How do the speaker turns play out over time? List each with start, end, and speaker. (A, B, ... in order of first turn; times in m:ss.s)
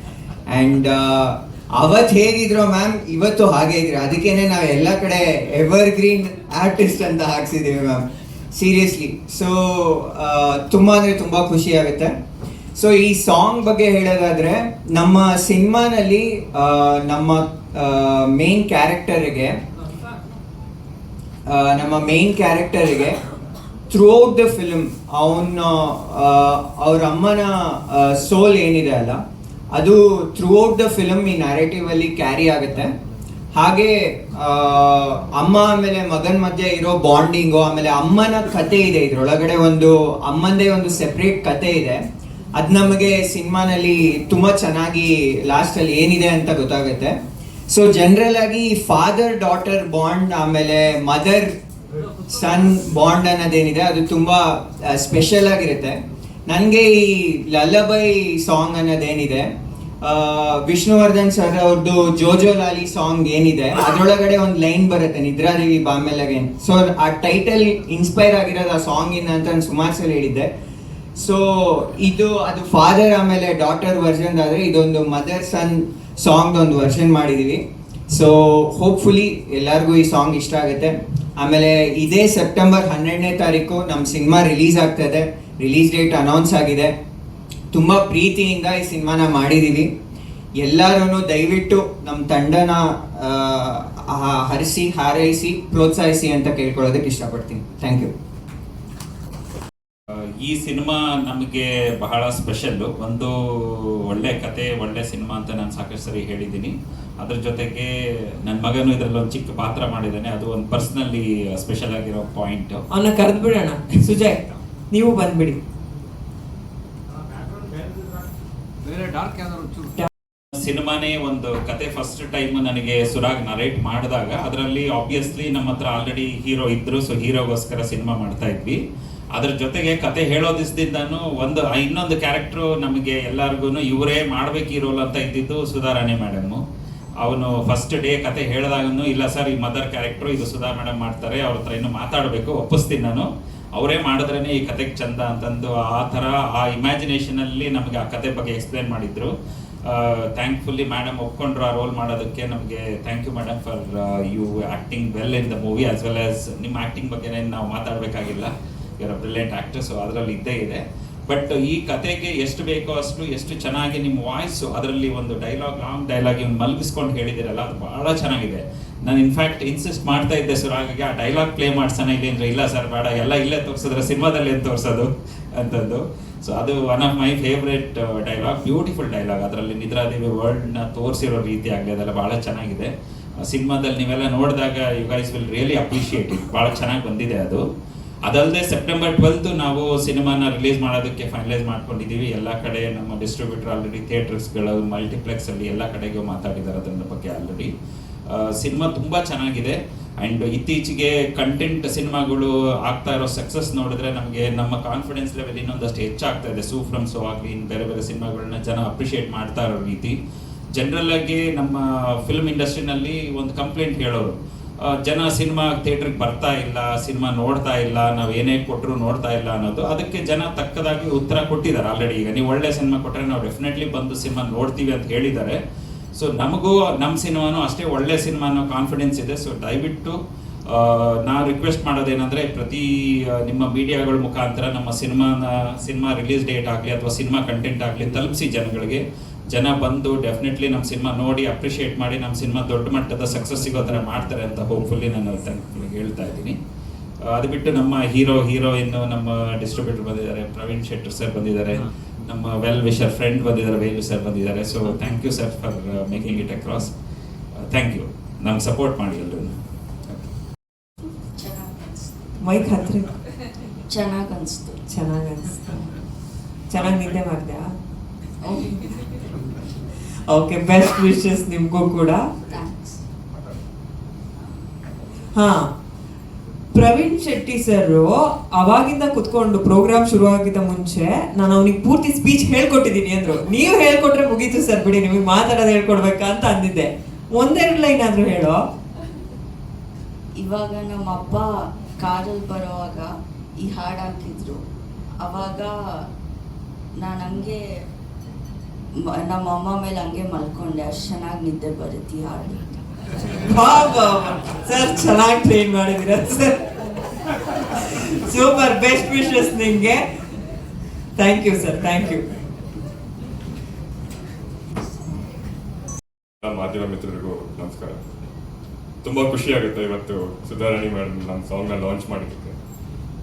0:00.5-0:12.1 A
0:12.8-0:19.5 A
0:21.5-0:23.2 A
0:23.9-0:29.2 A
0:29.8-0:32.9 A
0:33.6-0:42.0 A
0:42.6-0:47.1 A
0:47.7-0:51.5 A
0:52.3-0:59.5 A
1:00.0-1:10.5 A
1:11.2-1:26.9 A
1:27.7-1:29.9 A
1:30.6-1:38.1 A
1:40.4-1:47.9 B
1:48.4-1:52.8 B
1:52.9-1:55.6 C
2:00.6-2:08.8 B
2:09.3-2:16.6 B
2:17.2-2:29.3 B
2:29.8-3:02.9 B
3:03.4-3:07.6 B
3:08.3-3:17.7 B
3:18.3-3:30.1 B
3:30.8-3:45.6 B
3:46.2-3:50.2 B
3:50.7-4:06.6 B
4:07.3-4:16.9 B
4:17.7-4:19.5 B
4:21.3-4:22.4 D
4:22.4-4:23.2 C
4:23.9-4:24.8 D
4:24.9-4:25.8 C
4:26.7-4:27.8 C
4:28.4-4:29.2 D
4:30.3-4:32.3 C
4:32.5-4:33.0 D
4:35.3-4:35.7 C
4:36.7-4:48.7 C
4:50.4-4:54.6 D
4:55.2-4:56.1 D
4:57.0-4:57.6 D
4:58.9-5:02.6 D
5:03.4-5:06.6 C
5:08.0-5:10.0 C
5:11.2-5:12.2 C
5:16.4-5:18.0 E
5:19.0-5:22.6 E